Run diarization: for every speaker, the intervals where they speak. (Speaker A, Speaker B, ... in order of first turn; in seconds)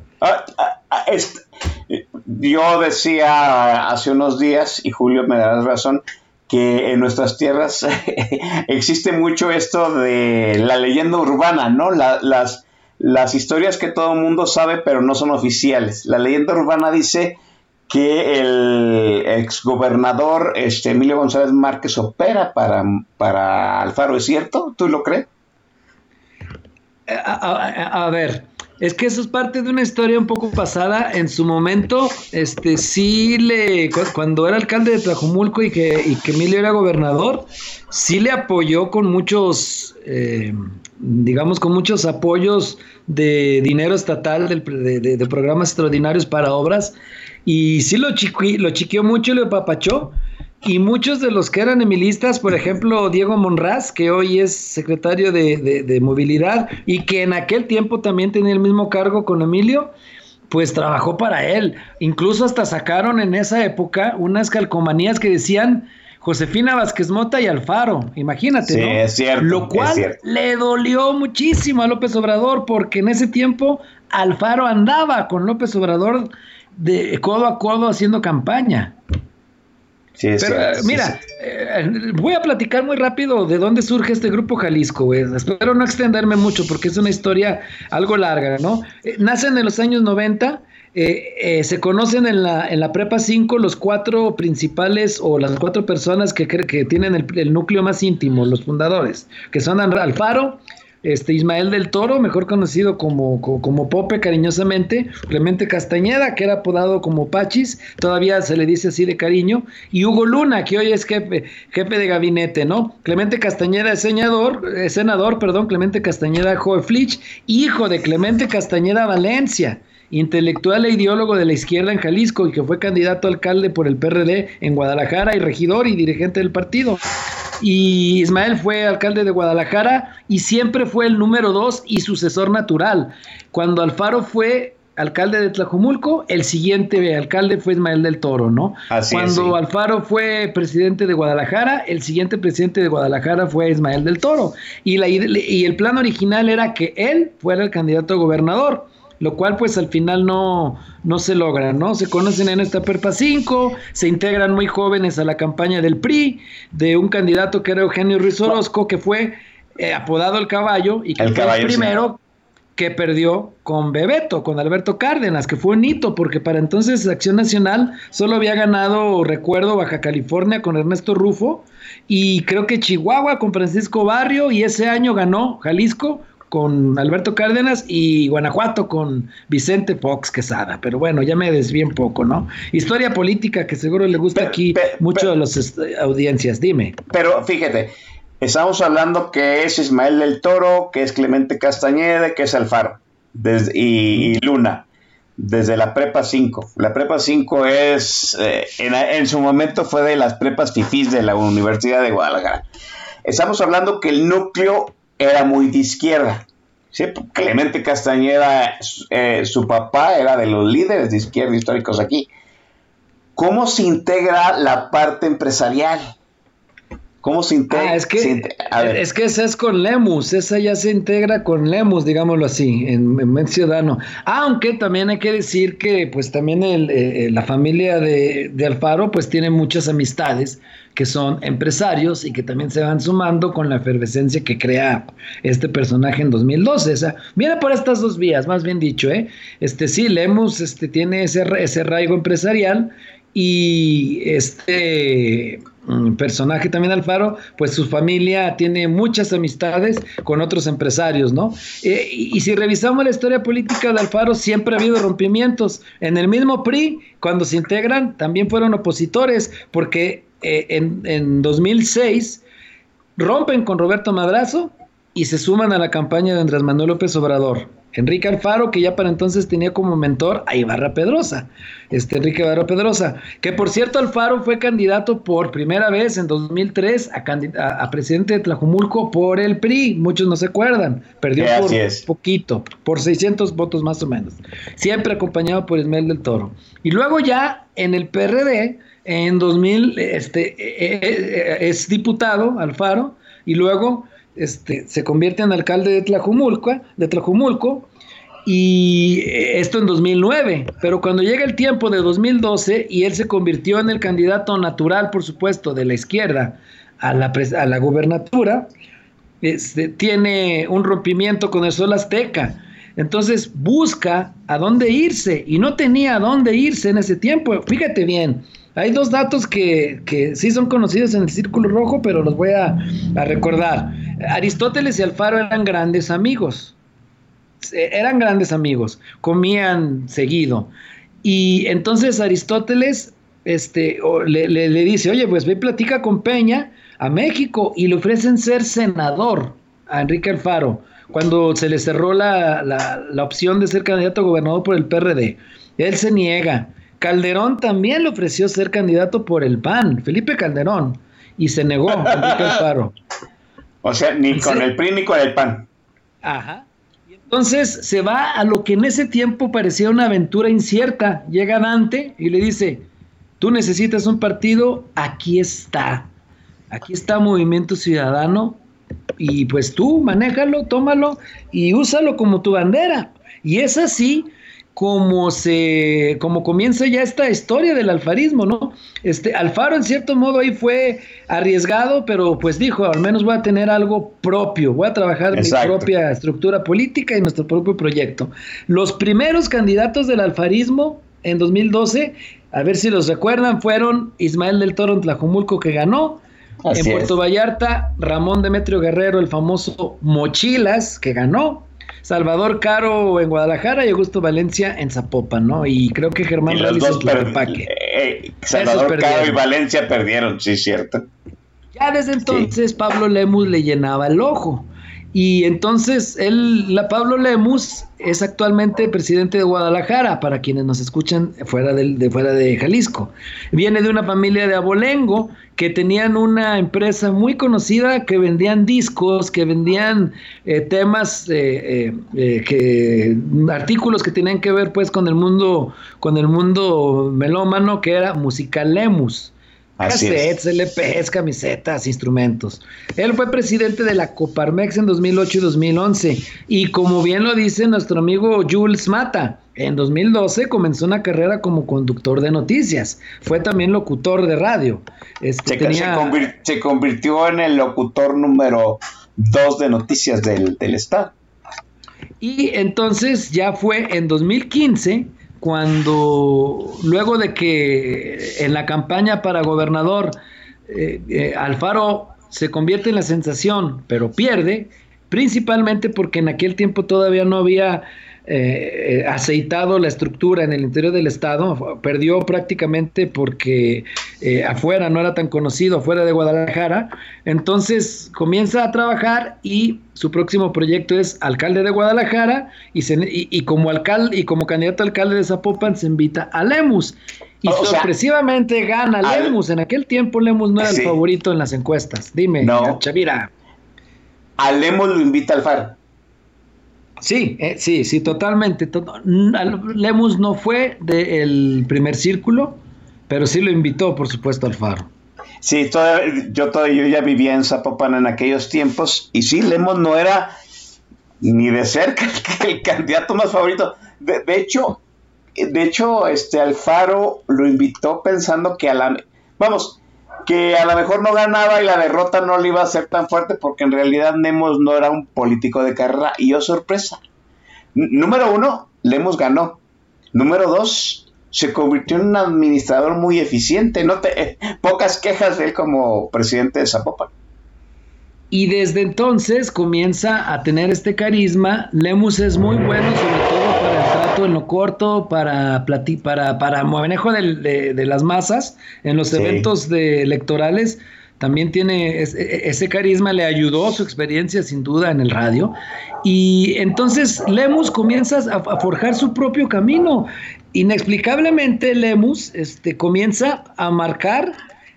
Speaker A: 0.2-25.3, 68.7-70.2, 80.2-81.2, 138.9-139.6, 161.2-161.9, 184.3-185.3, 187.1-194.9, 195.4-202.7, 203.2-212.3, 213.4-216.1, 217.2-219.0, 281.4-282.1, 352.1-352.5, 353.8-355.7, 385.3-385.9, 396.6-397.1, 406.5-411.1, 412.3-412.5, 439.8-440.3, 455.4-461.1, 497.4-497.9, 499.0-499.4, 500.6-501.0, 502.4-502.8, 504.4-505.8, 515.4-520.4, 521.2-524.8, 525.4-537.0, 537.8-539.6, 540.1-547.1, 559.1-559.5
Speaker B: 27.1-59.9, 60.5-79.0, 80.4-127.0, 127.6-162.2, 162.8-187.0, 217.7-262.4, 263.2-297.9, 298.5-308.7, 309.4-326.7, 327.6-330.7, 331.2-352.9, 354.3-354.6, 356.2-356.7, 357.3-362.9, 363.4-366.1, 366.7-368.6, 369.2-396.2, 396.7-407.7, 408.5-409.4, 411.8-439.3, 439.8-456.3, 462.2-503.3, 507.0-514.9, 548.3-574.4